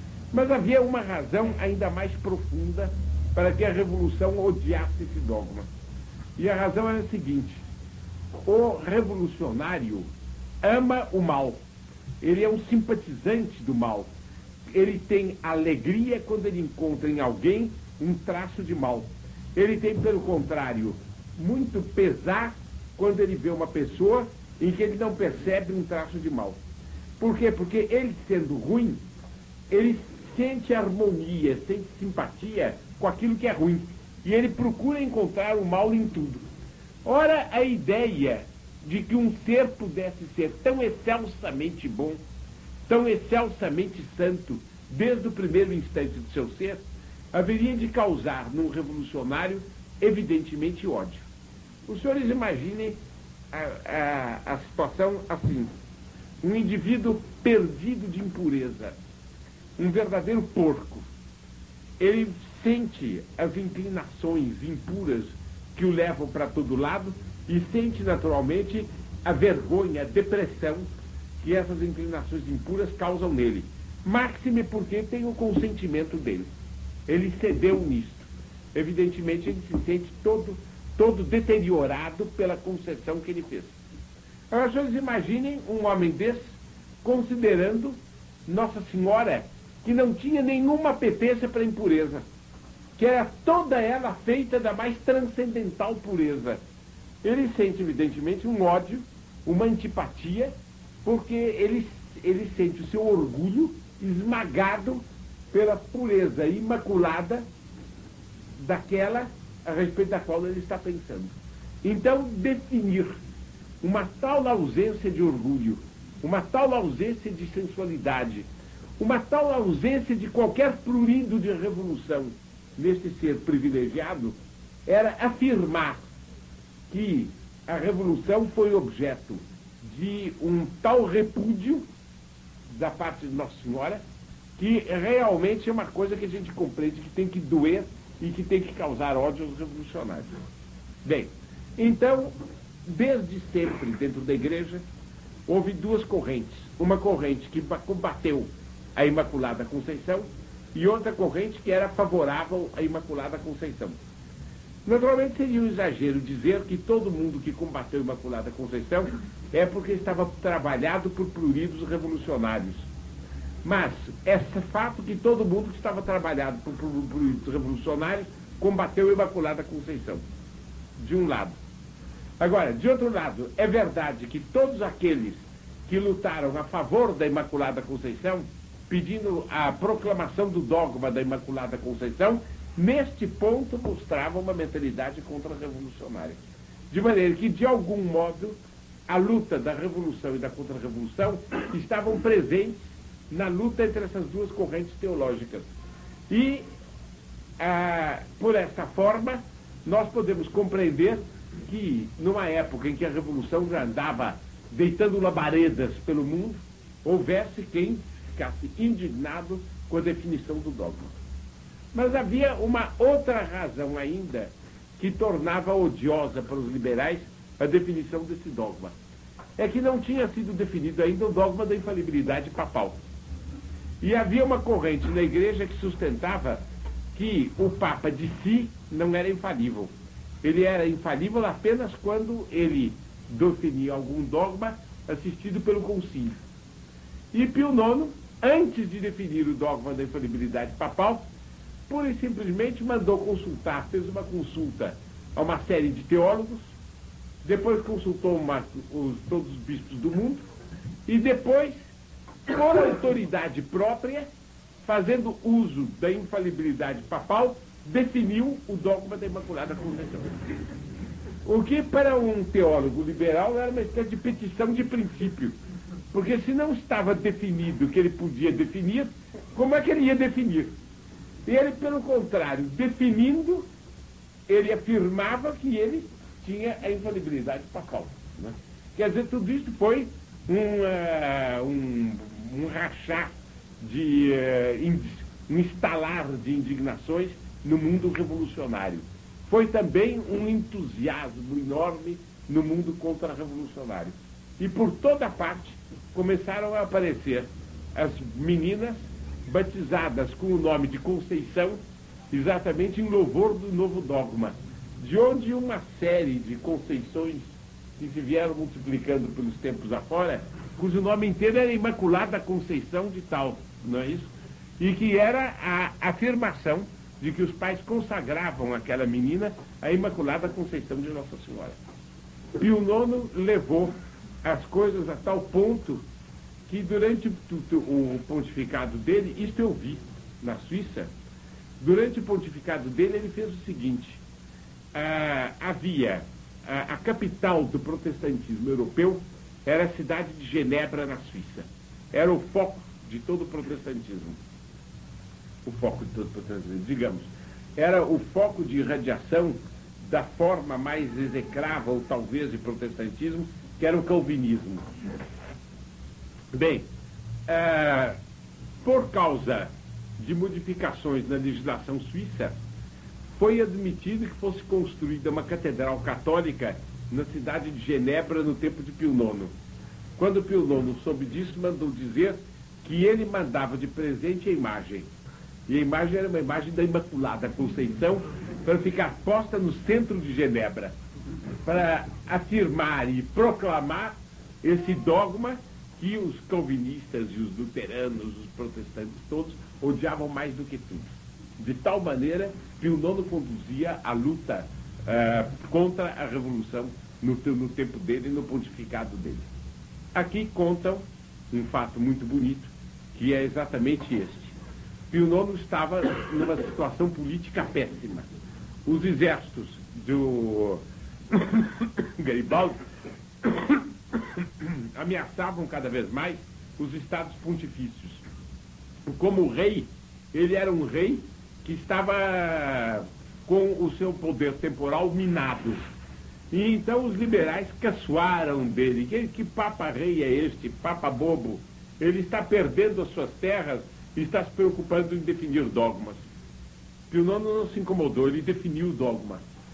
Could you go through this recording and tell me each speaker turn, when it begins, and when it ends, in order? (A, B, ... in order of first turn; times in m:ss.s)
0:00.3-0:05.7 A
0:06.4-0:07.6 A
0:08.4-0:10.1 A
0:10.6-0:11.6 A
0:12.2-0:14.1 A
0:14.7-0:26.6 A
0:27.2-0:29.0 A
0:29.7-0:36.4 A
0:37.0-0:42.2 A
0:42.9-0:51.3 A
0:51.8-0:53.0 A
0:53.5-0:55.7 A
0:56.4-0:58.9 A
0:59.8-1:01.1 A
1:02.0-1:10.9 A
1:11.4-1:16.5 A
1:17.1-1:23.8 A
1:24.5-1:32.2 A
1:33.0-1:36.6 A
1:37.2-1:40.5 A
1:41.0-1:47.4 A
1:48.6-1:53.1 A
1:53.8-1:58.4 A
1:59.0-2:06.0 A
2:06.9-2:11.8 A
2:12.7-2:14.0 A
2:14.6-2:20.3 A
2:21.0-2:22.3 A
2:22.8-2:24.8 A
2:25.5-2:34.0 A
2:34.8-2:42.9 A
2:43.6-2:50.2 A
2:51.0-2:51.6 A
2:52.4-3:06.4 A
3:06.9-3:08.6 A
3:09.1-3:15.7 A
3:16.3-3:16.6 A
3:17.6-3:31.1 A
3:31.9-3:38.9 A
3:39.6-3:43.0 A
3:44.0-3:46.6 A
3:47.1-3:49.9 A
3:50.4-3:56.4 A
3:57.3-4:01.2 A
4:01.9-4:06.7 A
4:07.4-4:10.4 A
4:11.1-4:11.8 A
4:12.5-4:14.3 A
4:14.8-4:20.4 A
4:21.4-4:25.6 A
4:26.1-4:30.7 A
4:31.4-4:33.6 A
4:34.5-5:01.8 A
5:02.3-5:21.8 A
5:22.6-5:23.9 A
5:24.4-5:26.0 A
5:26.7-5:31.1 A
5:31.8-5:34.2 A
5:34.9-5:44.4 A
5:45.6-5:54.8 A
5:56.5-5:56.8 A
5:57.5-5:58.2 A
5:58.8-6:02.6 A
6:03.4-6:09.5 A
6:10.2-6:15.1 A
6:15.7-6:20.9 A
6:21.6-6:39.5 A
6:40.1-6:44.5 A
6:45.1-6:48.3 A
6:48.8-6:52.8 A
6:53.4-6:58.2 A
6:59.0-7:05.8 A
7:06.5-7:16.3 A
7:17.1-7:19.4 A